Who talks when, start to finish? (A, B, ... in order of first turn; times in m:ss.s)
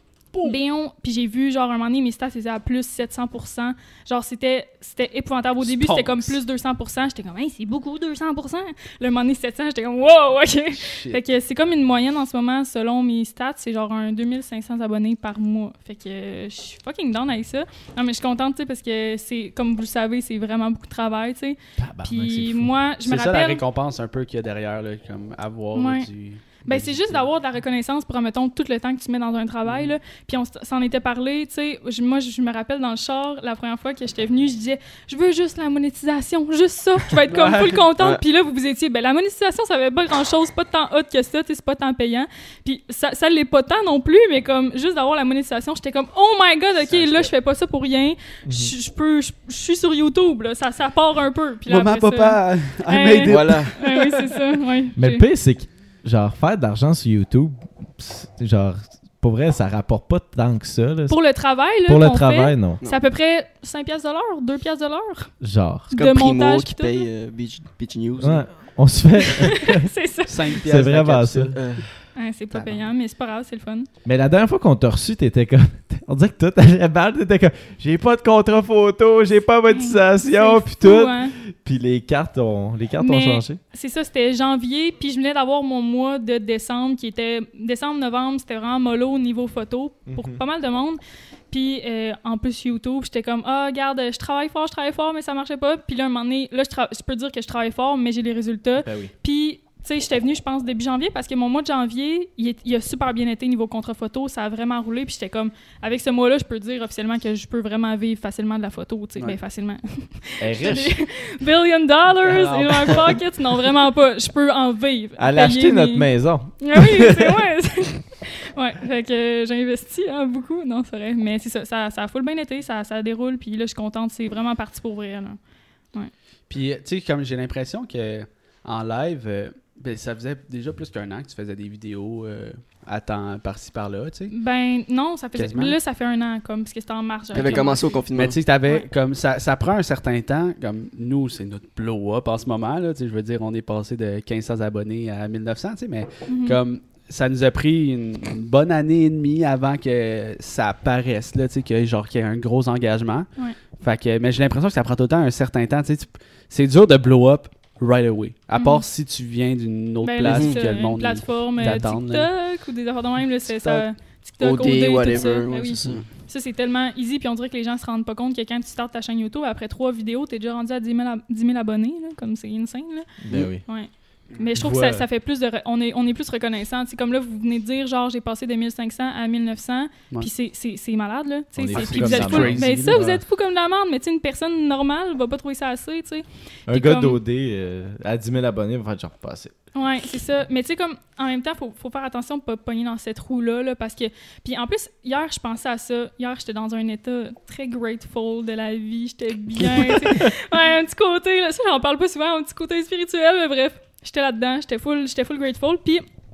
0:00.3-0:00.6 A
0:00.4-0:23.6 B
0:05.6-0:06.4 A
0:10.7-0:11.2 A
0:21.8-0:22.7 C
0:23.0-0:27.2 A
0:25.7-0:26.1 B
0:26.6-0:55.2 B
0:29.6-0:29.9 A
0:37.2-0:37.9 A
0:46.8-0:47.3 D
0:48.4-0:48.7 C
0:51.7-0:54.4 A
0:53.2-0:53.8 D
0:55.0-1:01.2 C
1:01.1-1:05.3 B
1:01.8-1:02.8 C
1:05.4-1:05.9 C
1:05.9-1:07.1 B
1:05.9-1:08.5 D
1:08.2-1:09.9 C
1:09.4-1:10.6 B
1:10.2-1:11.6 A
1:10.6-1:11.5 C
1:11.5-1:11.9 D
1:12.1-1:13.9 B
1:12.5-1:12.8 A
1:14.0-1:23.6 C
1:19.7-1:21.4 B
1:23.0-2:05.4 B
1:30.1-1:30.4 C
1:38.8-1:39.1 C
1:50.4-1:51.0 C
1:52.2-1:53.2 A
1:55.2-1:57.4 C
2:06.5-2:14.3 A
2:14.3-2:17.9 B
2:15.3-2:15.8 A
2:17.3-2:18.4 D
2:17.3-2:42.3 A
2:26.3-2:26.6 B
2:38.6-2:38.8 B
2:40.0-2:53.1 B
2:40.2-2:40.6 D
2:43.5-2:43.8 A
2:44.4-2:46.0 D
2:53.2-2:53.6 C
2:53.6-3:07.2 B
2:54.6-2:55.0 C
3:01.6-3:03.2 C
3:01.7-3:03.0 A
3:06.7-3:09.5 C
3:09.7-3:26.0 B